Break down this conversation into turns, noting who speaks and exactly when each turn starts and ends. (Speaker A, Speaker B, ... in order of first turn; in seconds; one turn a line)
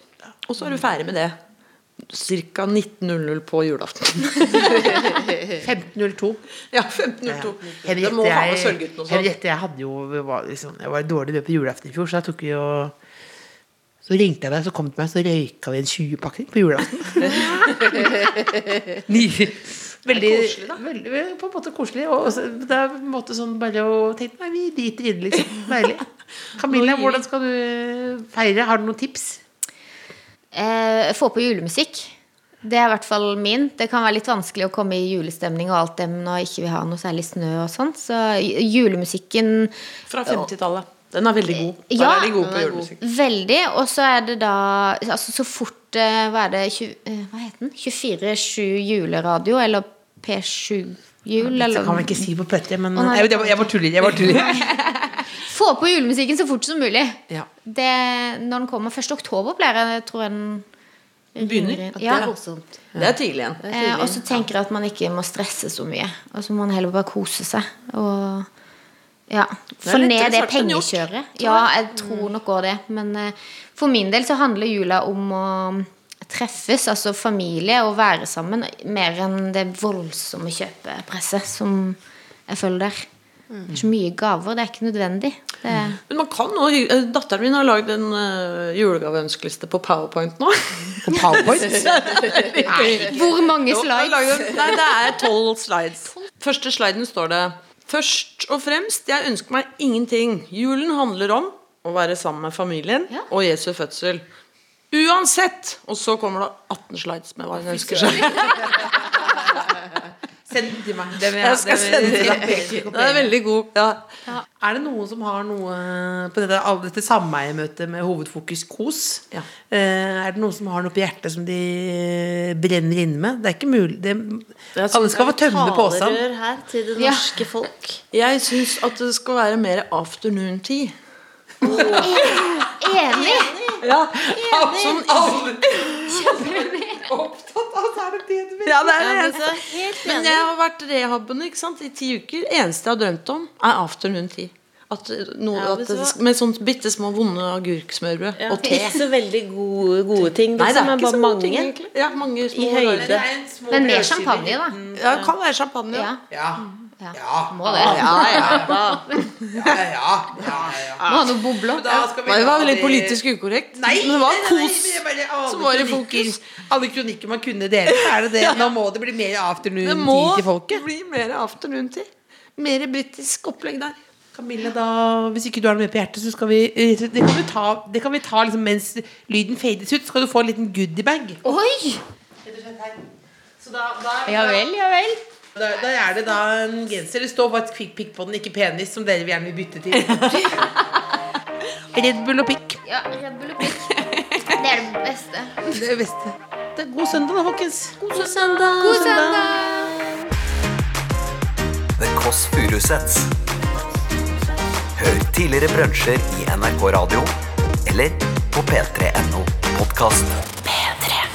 Speaker A: 0.5-1.4
Speaker A: 2.0-5.2
Speaker B: 5.5-6.4
Speaker A: 6.7-9.3
Speaker B: 7.3-12.9
Speaker B: 14.0-18.3
Speaker B: 19.1-29.4
Speaker A: 20.1-20.8
Speaker C: 30.5-39.7
Speaker A: 40.1-43.0
Speaker C: 41.9-52.3
Speaker D: 42.4-42.9
Speaker B: 51.4-54.8
Speaker C: 52.9-53.7
Speaker C: 55.4-60.6
Speaker C: 61.3-62.3
Speaker A: 61.4-62.3
Speaker D: 61.9-62.7
Speaker A: 63.0-63.6
Speaker D: 63.6-64.2
Speaker C: 63.7-68.5
Speaker C: 69.3-83.0
Speaker A: 69.8-71.7
Speaker C: 83.7-86.0
Speaker A: 86.1-104.2
Speaker B: 91.0-91.9
Speaker B: 92.6-93.2
Speaker C: 93.0-94.8
Speaker A: 104.9-109.2
Speaker B: 107.8-108.5
Speaker B: 110.5-113.3
Speaker A: 111.3-114.0
Speaker B: 114.6-126.2
Speaker D: 124.7-128.0
Speaker C: 127.0-127.3
Speaker A: 128.1-130.9
Speaker D: 131.6-132.4
Speaker A: 131.7-132.7
Speaker B: 131.7-132.0
Speaker C: 132.0-133.5
Speaker D: 133.0-133.8
Speaker A: 133.8-136.3
Speaker B: 134.2-139.3
Speaker D: 134.4-135.2
Speaker C: 136.1-137.0
Speaker A: 138.6-149.0
Speaker D: 139.0-140.5
Speaker D: 145.5-146.1
Speaker D: 148.4-151.7
Speaker A: 150.6-153.2
Speaker D: 152.5-153.2
Speaker B: 153.0-155.0
Speaker C: 153.7-154.8
Speaker A: 154.9-156.1
Speaker C: 155.9-156.2
Speaker B: 156.3-159.0
Speaker C: 157.0-158.9
Speaker A: 157.8-159.5
Speaker D: 157.8-159.0
Speaker B: 159.5-161.0
Speaker C: 161.1-162.1
Speaker B: 161.7-163.2
Speaker A: 162.2-166.4
Speaker B: 163.7-170.8
Speaker A: 167.9-168.7
Speaker A: 169.8-174.0
Speaker B: 174.3-181.4
Speaker C: 181.4-182.0
Speaker B: 182.4-183.0
Speaker B: 183.6-184.7
Speaker C: 184.2-185.2
Speaker B: 185.5-190.7
Speaker B: 191.9-192.8
Speaker C: 192.8-195.7
Speaker A: 193.9-194.6
Speaker B: 195.7-199.6
Speaker C: 198.6-199.9
Speaker E: 202.0-203.3
Speaker E: 205.0-207.3
Speaker E: 207.8-211.2